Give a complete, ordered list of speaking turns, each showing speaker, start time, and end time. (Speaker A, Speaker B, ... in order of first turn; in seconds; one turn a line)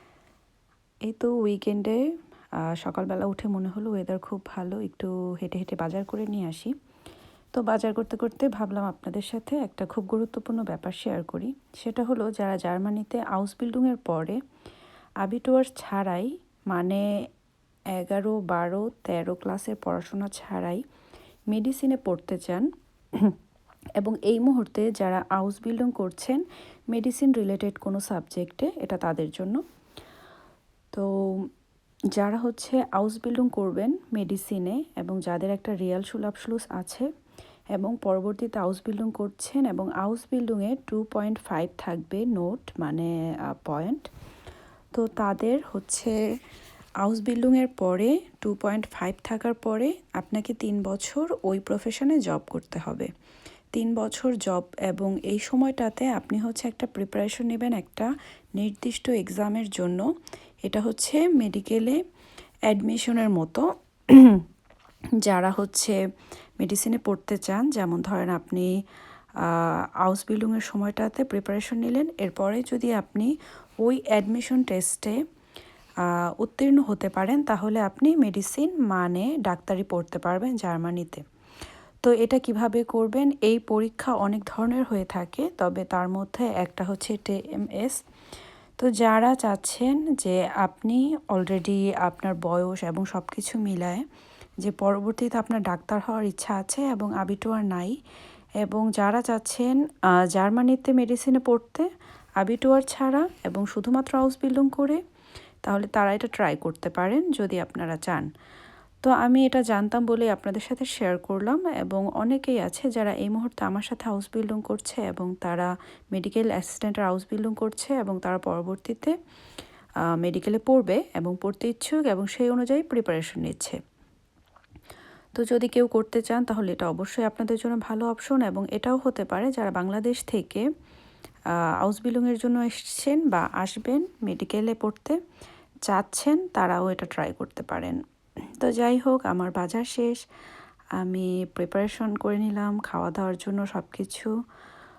Speaker A: 1.1-2.0
Speaker A: 2.6-6.7
Speaker A: 7.5-14.4
Speaker A: 15.2-17.0
Speaker A: 17.9-20.8
Speaker A: 21.5-22.6
Speaker A: 24.0-29.6
Speaker A: 32.1-37.1
Speaker A: 37.7-44.1
Speaker A: 45.0-46.2
Speaker A: 47.0-53.1
Speaker A: 53.7-60.1
Speaker A: 60.6-62.0
Speaker A: 62.7-64.4
Speaker A: 65.2-66.0
Speaker A: 66.6-68.7
Speaker A: 69.4-73.3
Speaker A: 73.8-75.2
Speaker A: 76.0-81.2
Speaker A: 82.0-88.0
Speaker A: 88.8-94.0
Speaker A: 94.6-98.0
Speaker A: 98.6-99.8
Speaker A: 100.3-101.9
Speaker A: 102.4-105.0
Speaker A: 105.6-108.3
Speaker A: 109.0-119.1
Speaker A: 120.1-123.8
Speaker A: 125.4-130.6
Speaker A: 131.8-135.2
Speaker A: 135.9-138.0
Speaker A: 138.6-140.2
Speaker A: 141.0-144.3